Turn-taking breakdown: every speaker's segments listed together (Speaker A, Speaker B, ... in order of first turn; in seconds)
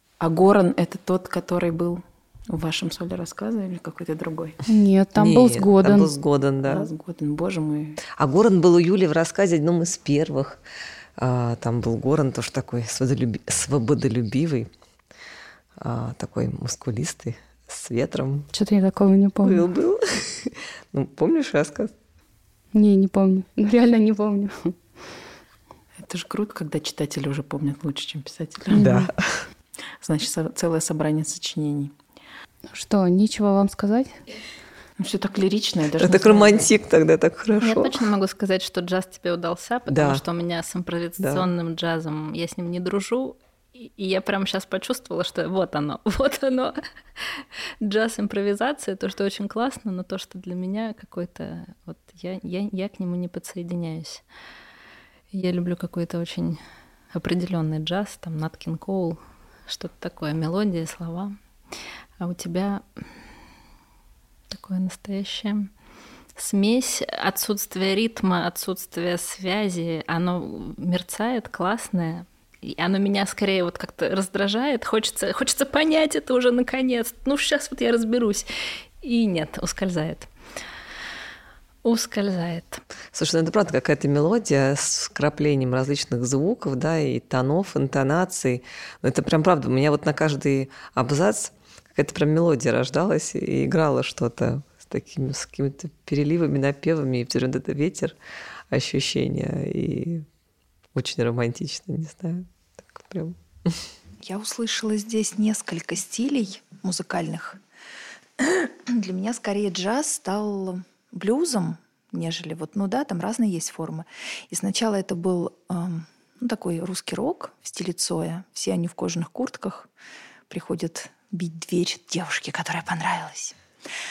Speaker A: 0.2-4.6, 6.7-8.0, 26.0-28.9, 30.0-31.9, 35.0-36.7
Speaker B: 4.7-6.1, 18.5-19.7, 22.7-24.7, 28.7-29.1, 32.7-34.2
Speaker C: 5.2-6.9, 8.1-10.6, 11.2-14.7, 15.8-18.5, 19.4-21.9, 28.7-29.5, 36.0-38.0, 39.9-40.2, 41.2-41.5, 83.1-98.2, 98.7-100.2, 100.9-103.9
Speaker D: 37.6-54.2, 55.3-56.6, 57.1-61.3, 62.2-62.8, 64.5-65.7, 66.3-78.5, 79.0-80.3, 81.8-82.8
Speaker E: 104.2-107.6, 108.4-119.9, 120.5-123.5